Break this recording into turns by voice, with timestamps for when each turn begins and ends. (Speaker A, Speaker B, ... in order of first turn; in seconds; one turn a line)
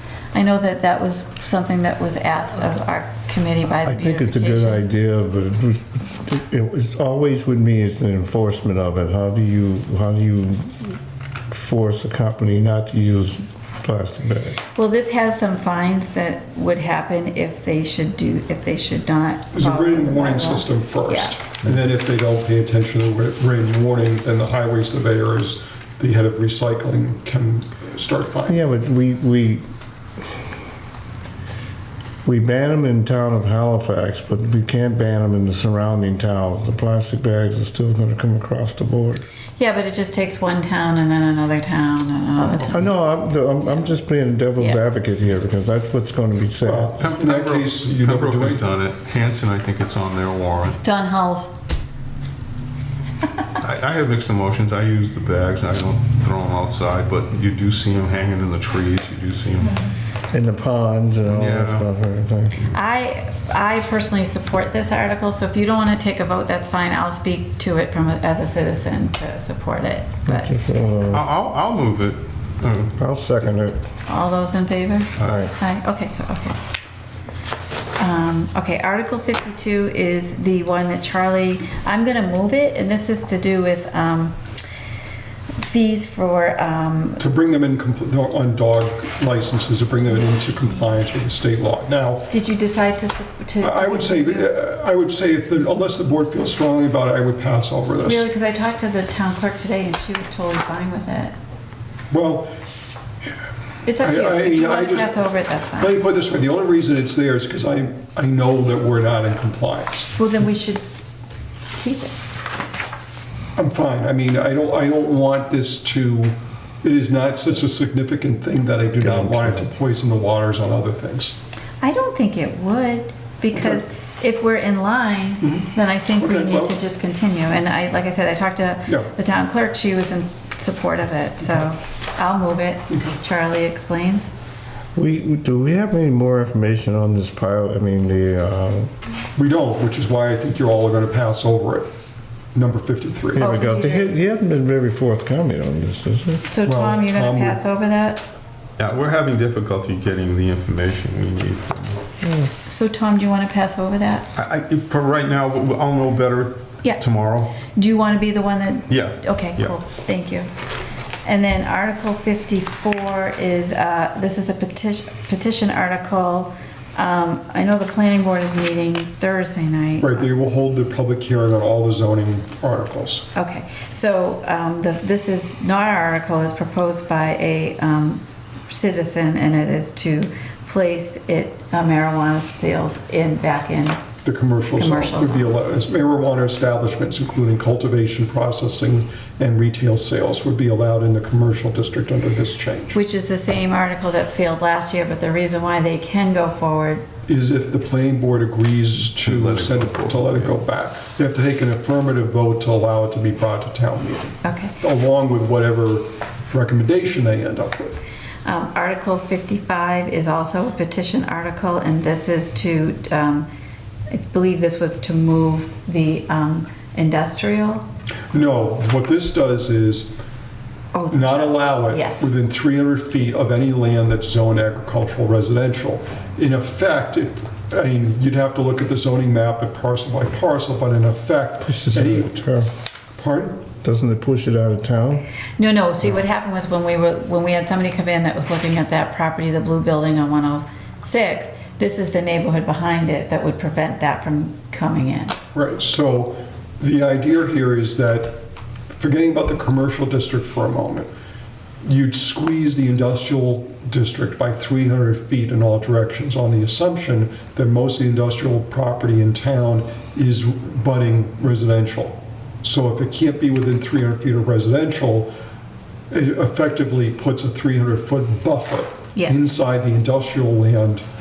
Speaker A: 0.3-4.8
Speaker B: 3.8-11.0
Speaker B: 11.5-14.6
Speaker A: 14.7-21.4
Speaker C: 19.5-28.6
Speaker B: 28.5-29.6
Speaker B: 32.2-39.2
Speaker A: 39.6-42.9
Speaker B: 42.6-46.9
Speaker C: 46.6-48.6
Speaker D: 47.0-50.8
Speaker A: 50.8-51.5
Speaker D: 53.6-59.9
Speaker B: 60.3-62.6
Speaker D: 61.2-61.9
Speaker A: 62.7-70.5
Speaker B: 70.2-71.2
Speaker D: 71.1-73.0
Speaker B: 73.0-73.8
Speaker A: 74.1-76.6
Speaker B: 75.2-75.5
Speaker A: 78.0-84.4
Speaker A: 85.5-87.2
Speaker C: 87.2-92.3
Speaker A: 92.3-94.5
Speaker C: 93.6-98.2
Speaker A: 98.0-101.3
Speaker C: 102.1-102.5
Speaker A: 103.8-106.0
Speaker C: 104.0-110.1
Speaker A: 110.2-110.8
Speaker A: 111.7-112.1
Speaker C: 113.5-121.3
Speaker B: 119.0-119.7
Speaker A: 121.8-134.3
Speaker C: 125.4-126.8
Speaker C: 131.4-131.7
Speaker C: 132.9-133.2
Speaker B: 134.9-138.9
Speaker C: 139.3-141.9
Speaker C: 142.5-143.4
Speaker B: 143.3-146.4
Speaker A: 143.3-144.1
Speaker A: 146.5-148.2
Speaker C: 146.6-147.6
Speaker D: 148.8-152.0
Speaker B: 152.2-152.5
Speaker A: 152.7-154.3
Speaker D: 154.3-157.6
Speaker A: 157.6-160.5
Speaker D: 158.9-159.8
Speaker A: 161.2-170.2
Speaker C: 170.0-173.2
Speaker A: 173.3-184.0
Speaker C: 184.2-193.0
Speaker A: 184.8-185.5
Speaker A: 192.9-197.0
Speaker C: 197.3-208.0
Speaker D: 199.2-200.6
Speaker A: 204.4-204.7
Speaker A: 208.4-213.5
Speaker A: 214.1-217.8
Speaker C: 218.3-220.1
Speaker A: 220.9-222.3
Speaker C: 221.1-232.3
Speaker B: 231.6-232.7
Speaker C: 233.2-233.6
Speaker B: 233.8-235.3
Speaker A: 235.6-245.3
Speaker C: 245.5-248.4
Speaker C: 249.0-251.1
Speaker C: 251.8-265.3
Speaker C: 266.1-271.0
Speaker A: 269.1-269.4